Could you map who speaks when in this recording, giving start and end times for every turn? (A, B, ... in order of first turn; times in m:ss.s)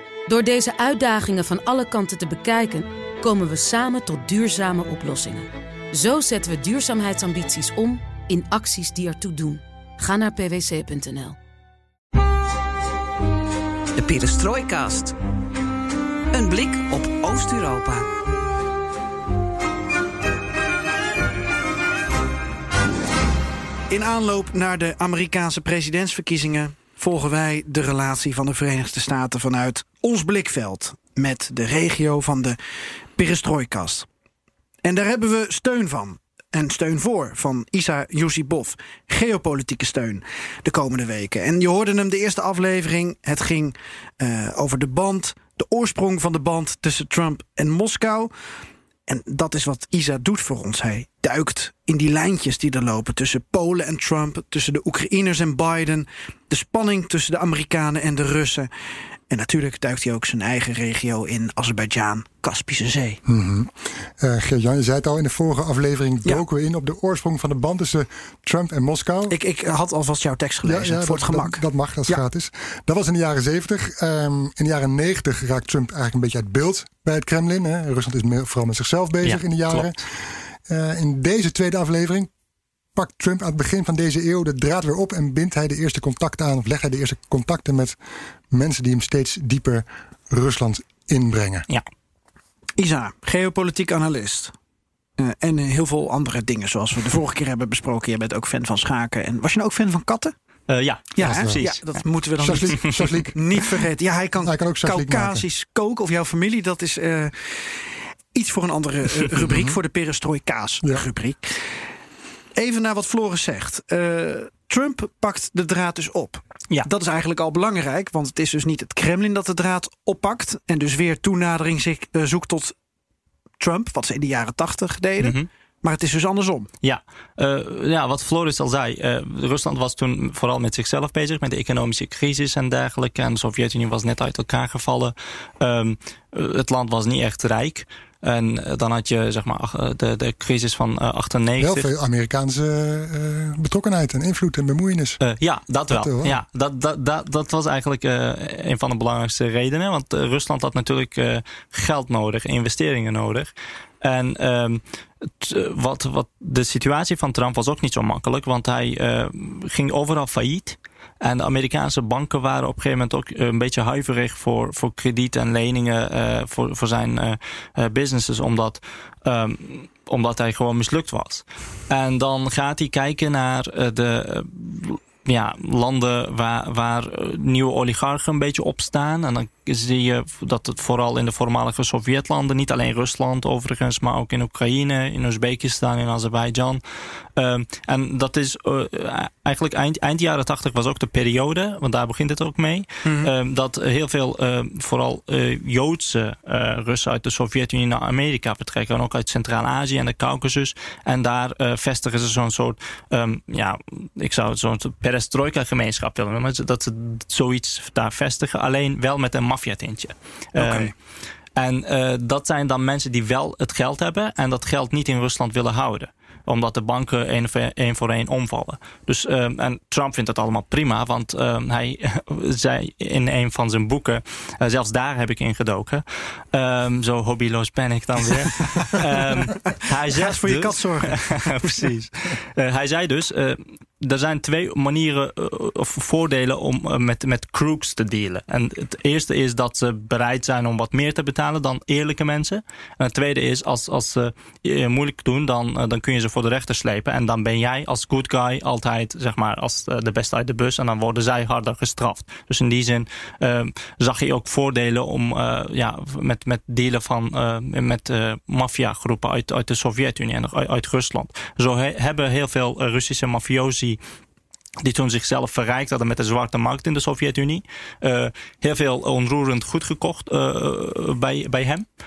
0:00.3-0:11.4 A
0:14.0-0:15.1 B
0:16.3-0:18.0 B
0:23.9-0:32.6 C
0:33.1-0:34.0 C
0:34.8-0:48.3 C
0:49.1-0:58.7 C
0:59.3-1:03.2 C
1:03.2-1:09.4 D
1:09.3-1:12.2 C
1:10.6-1:22.3 D
1:19.2-1:19.9 E
1:22.9-1:28.0 D
1:28.5-1:31.6 D
1:32.8-1:34.5 C
1:35.2-1:40.3 C
1:40.7-1:42.0 E
1:41.1-1:51.8 C
1:41.2-1:41.6 D
1:42.4-1:43.7 D
1:42.5-1:42.9 E
1:44.4-1:45.4 D
1:49.4-1:49.8 D
1:52.5-2:02.7 C
2:03.6-2:06.7 C
2:05.2-2:05.5 E
2:06.8-2:21.9 E
2:21.6-2:25.2 D
2:25.2-3:30.9 E
2:25.9-2:26.4 D
3:13.0-3:13.3 C
3:30.6-3:30.9 C
3:31.6-4:24.0 E
3:50.1-3:51.9 C
4:24.8-4:31.8 E